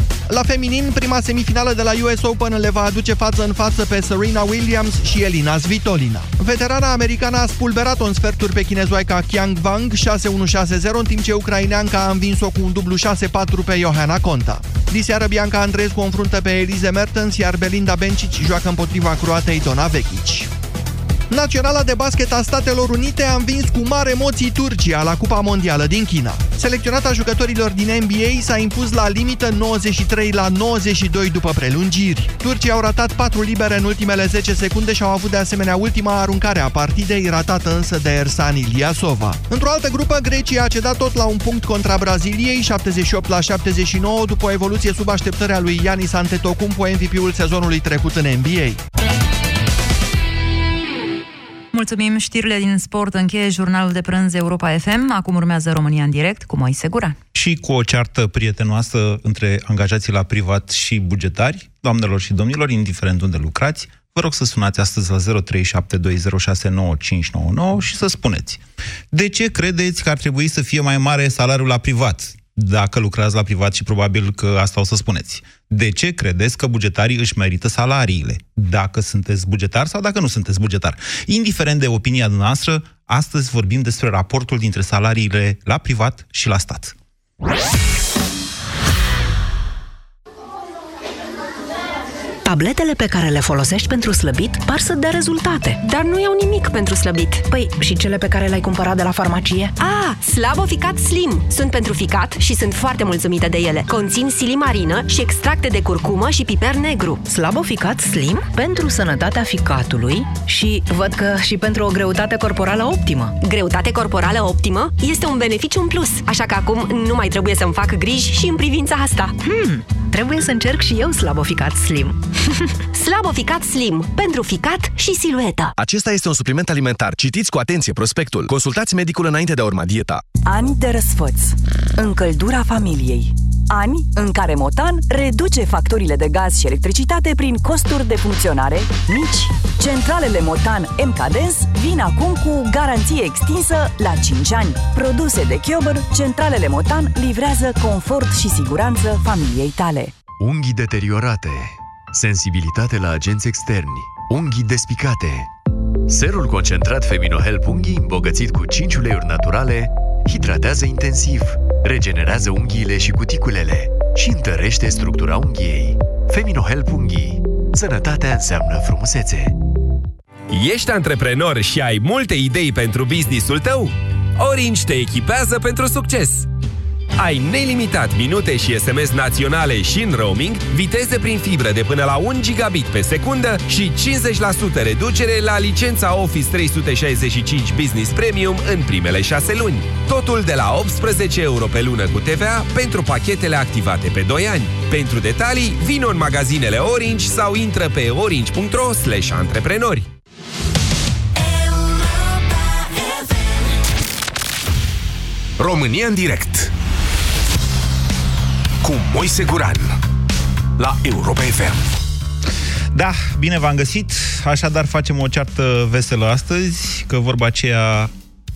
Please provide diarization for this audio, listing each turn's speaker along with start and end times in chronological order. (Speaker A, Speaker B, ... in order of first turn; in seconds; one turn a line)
Speaker A: 0.3-20.5
Speaker A: 21.3-48.8
Speaker B: 51.7-57.2
Speaker C: 57.3-87.0
Speaker D: 92.5-95.8
Speaker E: 95.8-97.5
Speaker D: 97.5-99.7
Speaker E: 99.8-107.2
Speaker D: 107.3-113.3
Speaker E: 113.4-119.4
Speaker D: 119.4-122.3
Speaker E: 122.9-125.7
Speaker F: 125.8-130.2
Speaker G: 130.4-150.1
Speaker H: 150.4-155.5
Speaker H: 156.1-169.6
Speaker I: 170.5-176.5
Speaker I: 177.2-200.1
Speaker H: 205.6-206.4
Speaker H: 208.8-209.7
Speaker H: 211.1-211.8
Speaker C: 212.9-218.1